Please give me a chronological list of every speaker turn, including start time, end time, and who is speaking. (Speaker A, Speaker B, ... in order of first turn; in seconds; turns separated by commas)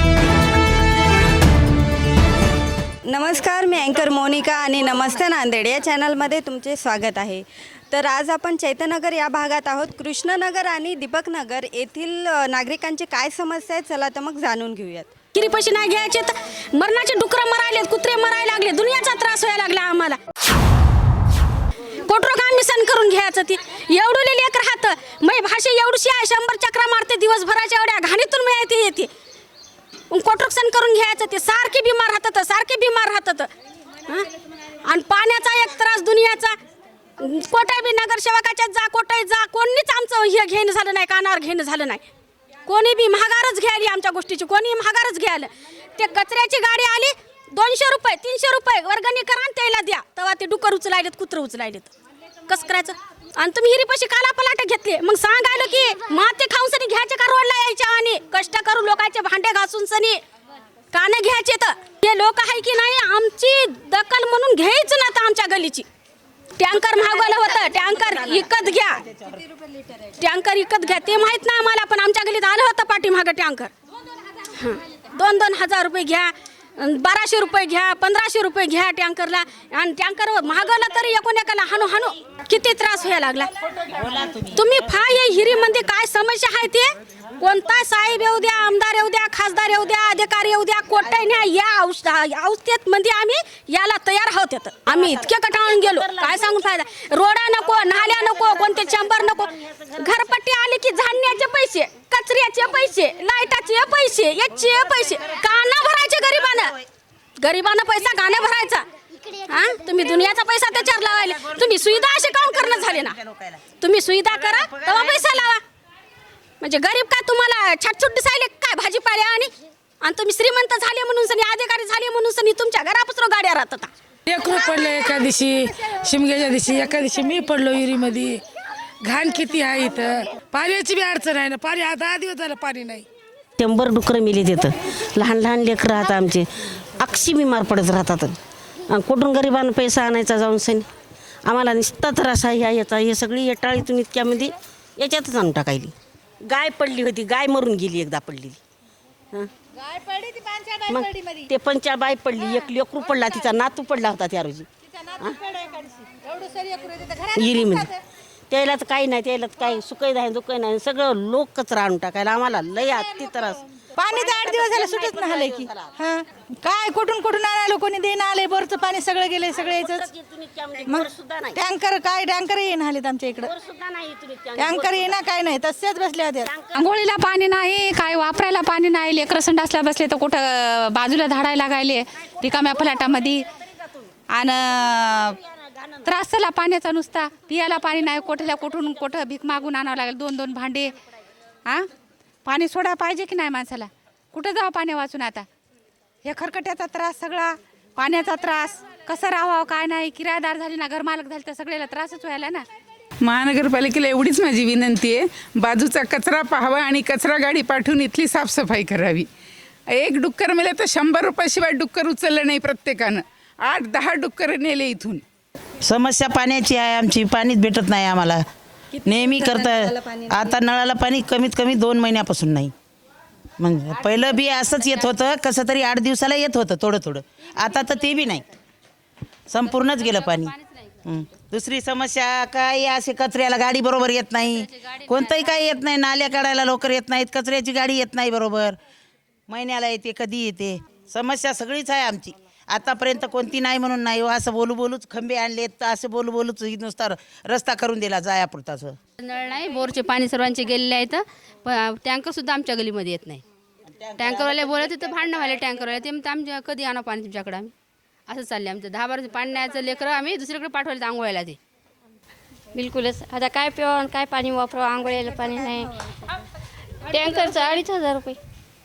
Speaker A: 3.0-15.1, Speaker B: 15.3-20.2, Speaker B: 22.0-29.1, Speaker B: 30.1-33.5, Speaker B: 34.8-36.6, Speaker B: 37.2-42.0, Speaker B: 42.6-51.9, Speaker B: 52.5-60.2, Speaker B: 60.9-65.8, Speaker B: 66.6-69.0, Speaker B: 70.0-73.7, Speaker B: 74.4-83.5, Speaker C: 83.9-84.5, Speaker B: 84.5-106.8, Speaker B: 107.4-113.2, Speaker C: 112.6-113.6, Speaker B: 113.8-115.6, Speaker B: 116.6-123.9, Speaker D: 124.3-128.4, Speaker D: 129.0-133.1, Speaker E: 133.6-138.4, Speaker E: 138.9-140.9, Speaker E: 141.4-148.6, Speaker F: 150.0-151.3, Speaker E: 150.9-154.7, Speaker F: 156.5-157.7, Speaker E: 157.3-157.9, Speaker E: 158.5-165.9, Speaker F: 164.0-170.0, Speaker E: 169.4-171.6, Speaker F: 170.8-173.5, Speaker E: 173.4-175.2, Speaker F: 174.6-176.5, Speaker G: 176.8-183.4, Speaker G: 184.3-185.4, Speaker G: 186.0-190.9, Speaker G: 192.4-195.4, Speaker G: 196.2-202.6, Speaker H: 203.2-209.3, Speaker H: 209.9-215.2, Speaker C: 215.8-218.4, Speaker C: 219.0-222.7, Speaker C: 223.6-228.4, Speaker C: 229.5-238.8, Speaker C: 239.5-249.0, Speaker I: 249.2-253.4, Speaker G: 250.8-251.1, Speaker C: 253.9-254.8, Speaker I: 254.2-257.7, Speaker I: 258.3-261.6, Speaker J: 262.7-266.1, Speaker J: 267.0-268.4